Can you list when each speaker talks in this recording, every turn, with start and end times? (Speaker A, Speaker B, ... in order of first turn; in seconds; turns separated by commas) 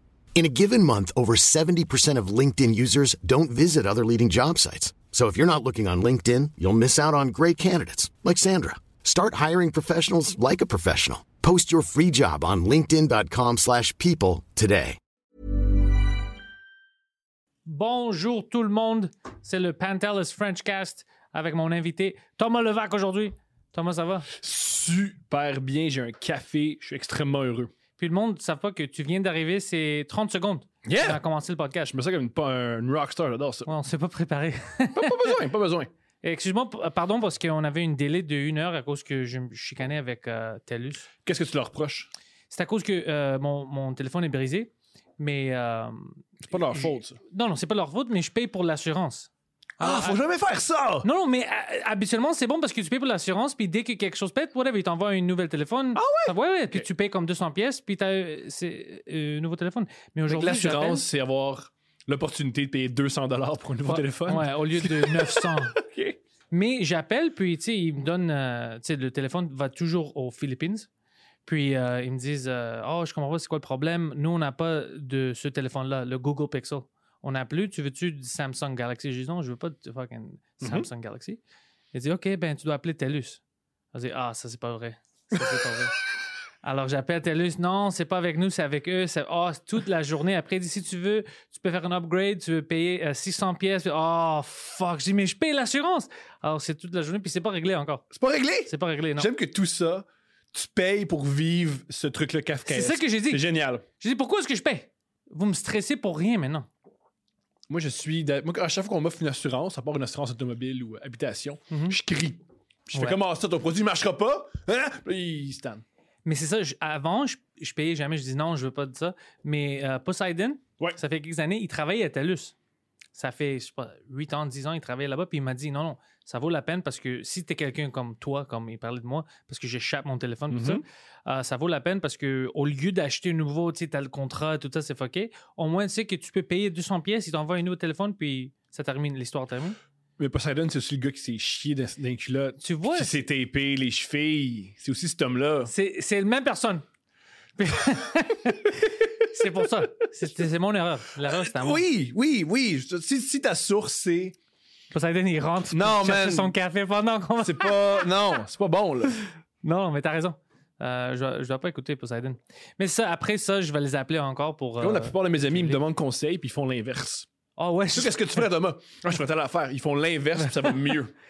Speaker A: 0.3-15.0, Speaker B: 17.6-24.3, Speaker C: 24.3-27.7, Speaker B: 28.0-31.9, Speaker C: 30.8-31.2, Speaker C: 31.8-33.7, Speaker B: 33.6-35.4, Speaker C: 34.9-35.9, Speaker B: 36.2-41.1, Speaker C: 41.2-42.1, Speaker B: 42.5-50.2, Speaker C: 46.4-47.2, Speaker C: 49.8-51.1, Speaker B: 51.0-61.0, Speaker C: 56.0-56.9, Speaker C: 60.3-66.2, Speaker B: 63.8-65.8, Speaker B: 66.5-70.9, Speaker B: 71.4-81.4, Speaker C: 80.6-80.9, Speaker B: 81.9-83.4, Speaker B: 83.9-86.0, Speaker B: 86.6-98.0, Speaker C: 98.1-103.8, Speaker B: 98.7-99.3, Speaker B: 102.7-106.7, Speaker C: 107.7-115.8, Speaker B: 111.7-112.0, Speaker B: 116.2-122.5, Speaker B: 123.1-139.8, Speaker C: 130.5-130.8, Speaker C: 140.2-145.7, Speaker B: 142.6-143.2, Speaker B: 145.6-146.8, Speaker B: 147.6-151.8, Speaker C: 151.2-154.3, Speaker B: 154.9-158.1, Speaker C: 155.7-156.5, Speaker C: 157.4-159.2, Speaker B: 159.2-165.8, Speaker C: 164.8-167.3, Speaker B: 167.6-168.5, Speaker C: 167.9-171.1